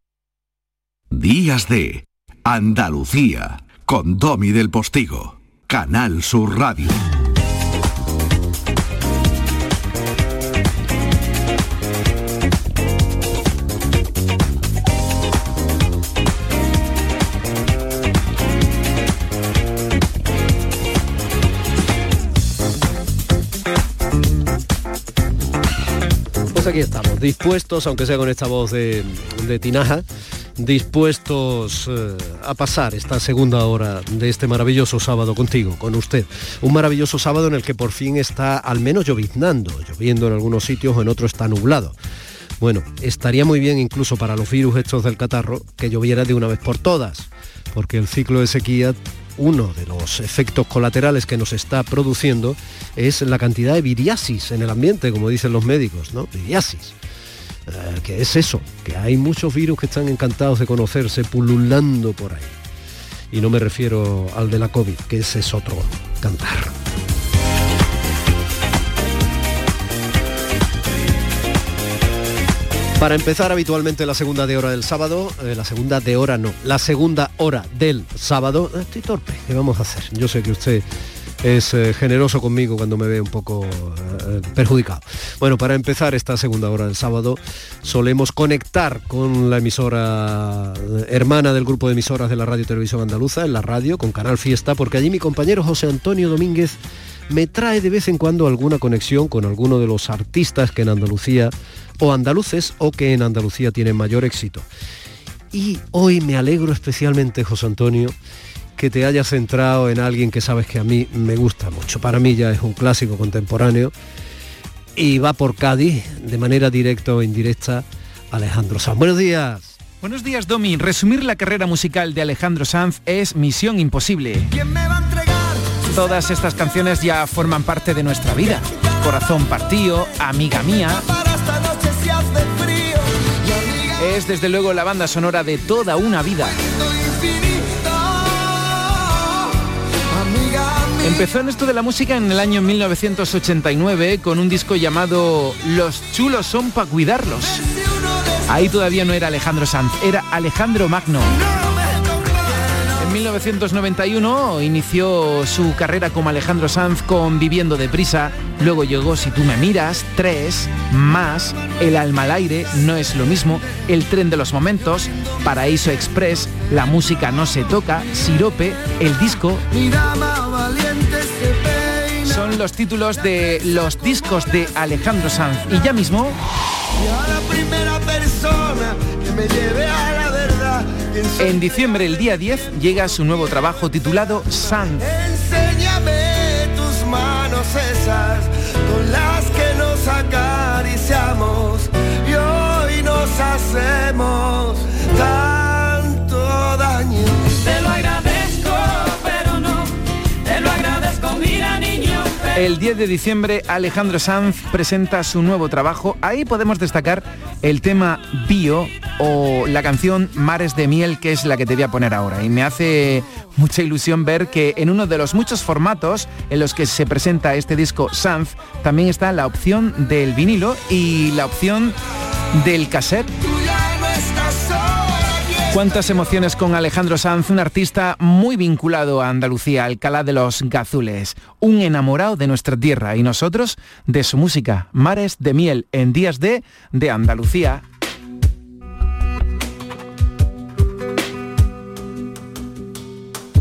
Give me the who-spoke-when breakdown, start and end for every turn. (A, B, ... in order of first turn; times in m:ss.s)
0:01.1-0:07.0 A
0:26.5-0:30.0 B
0:30.6-0:42.0 B
0:42.6-0:57.0 B
0:57.7-1:02.6 B
1:03.3-1:06.7 B
1:13.0-1:20.9 B
1:21.4-1:44.7 B
1:45.5-1:48.2 B
1:48.8-1:53.9 B
1:55.0-1:59.8 B
2:00.0-2:04.5 C
2:05.0-2:05.5 D
2:05.9-2:11.1 C
2:11.0-2:14.0 D
2:14.0-2:16.6 C
2:16.6-2:19.4 D
2:20.1-2:21.3 D
2:21.0-2:27.7 C
2:27.4-2:28.5 D
2:28.5-2:31.4 C
2:31.3-2:32.9 D
2:33.0-2:49.6 C
2:49.7-2:52.4 D
2:52.2-2:56.4 C
2:57.0-3:02.0 D
3:01.4-3:05.1 C
3:05.0-3:17.6 D
3:22.5-3:42.0 C
3:42.5-3:43.3 C
3:43.5-3:45.7 D
3:45.7-3:57.8 C